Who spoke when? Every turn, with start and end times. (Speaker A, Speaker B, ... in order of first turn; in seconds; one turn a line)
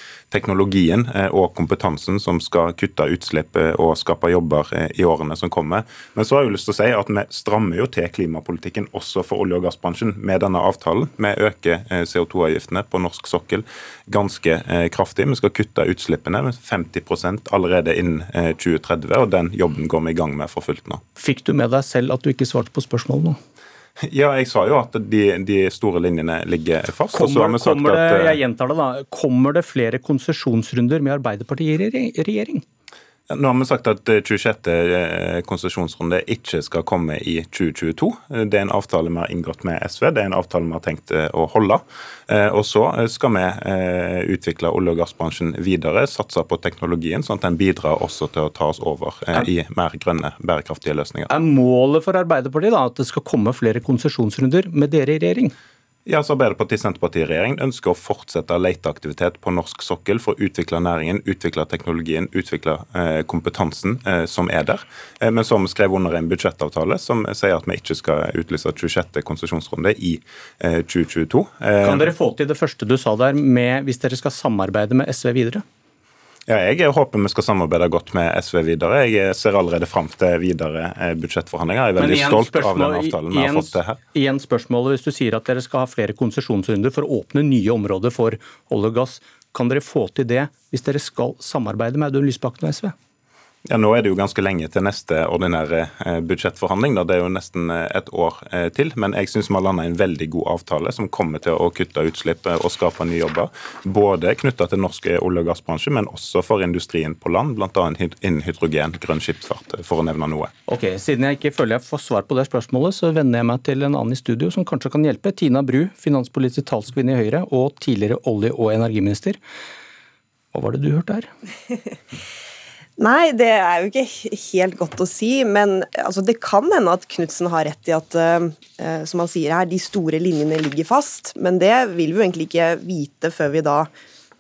Speaker A: 0.3-21.0
Speaker B: 21.2-23.4
Speaker A: 24.1-28.4
Speaker B: 27.1-32.6
Speaker A: 33.3-51.3
Speaker B: 51.3-55.5
Speaker A: 56.1-72.1
Speaker B: 71.8-75.6
Speaker A: 76.5-84.0
Speaker B: 82.0-92.9
Speaker A: 93.7-110.5
Speaker B: 110.7-119.4
Speaker B: 120.5-121.3
Speaker C: 123.0-133.9